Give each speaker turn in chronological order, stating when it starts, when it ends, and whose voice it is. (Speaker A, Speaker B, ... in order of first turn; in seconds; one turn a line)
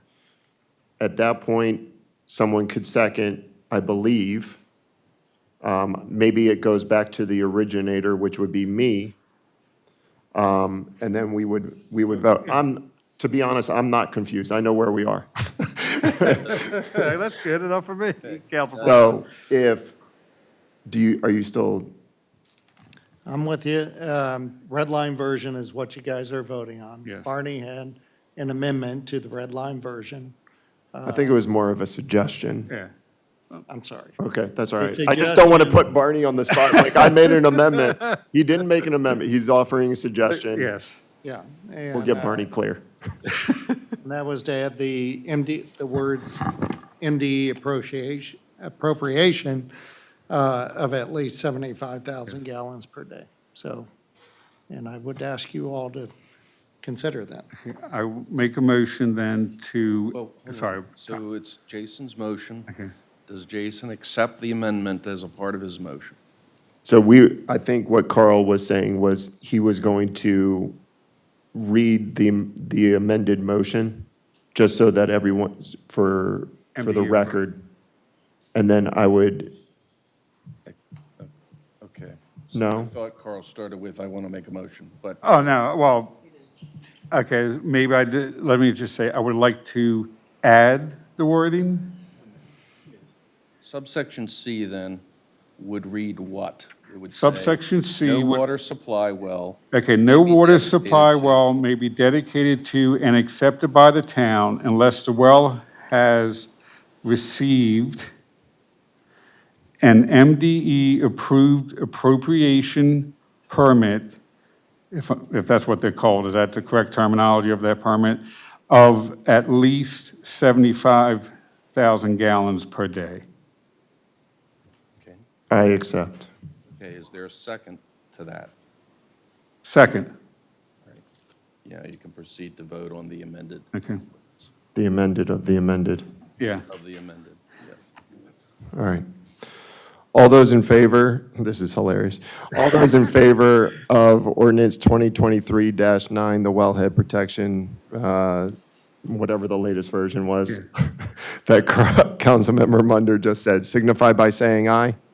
Speaker A: 1.0-4.6
Speaker A: 5.6-9.2
Speaker A: 10.3-16.9
Speaker B: 18.2-19.0
Speaker A: 18.8-19.9
Speaker A: 20.9-21.9
Speaker C: 23.2-30.4
Speaker C: 30.9-31.3
Speaker A: 31.0-32.7
Speaker C: 33.7-34.2
Speaker A: 34.2-40.7
Speaker C: 34.8-35.8
Speaker D: 40.3-41.0
Speaker C: 41.2-42.5
Speaker A: 41.9-42.8
Speaker C: 44.0-49.7
Speaker C: 50.3-53.9
Speaker C: 54.7-56.1
Speaker C: 56.8-57.5
Speaker D: 57.6-61.2
Speaker B: 60.1-62.7
Speaker B: 63.3-66.2
Speaker A: 66.8-70.8
Speaker A: 71.5-77.6
Speaker D: 76.8-77.4
Speaker A: 78.5-79.5
Speaker B: 80.7-85.2
Speaker A: 82.5-82.9
Speaker D: 85.2-86.2
Speaker D: 87.1-92.0
Speaker B: 93.6-95.0
Speaker B: 95.6-101.6
Speaker D: 97.1-98.4
Speaker D: 99.7-106.5
Speaker D: 107.0-108.1
Speaker D: 109.8-114.2
Speaker D: 114.9-123.2
Speaker A: 125.5-126.3
Speaker B: 126.7-128.5
Speaker D: 129.6-130.1
Speaker B: 131.6-133.7
Speaker D: 133.7-134.0
Speaker A: 134.7-136.1
Speaker D: 136.4-136.6
Speaker B: 136.7-137.9
Speaker A: 138.7-139.0
Speaker A: 140.1-148.5
Speaker A: 149.0-154.9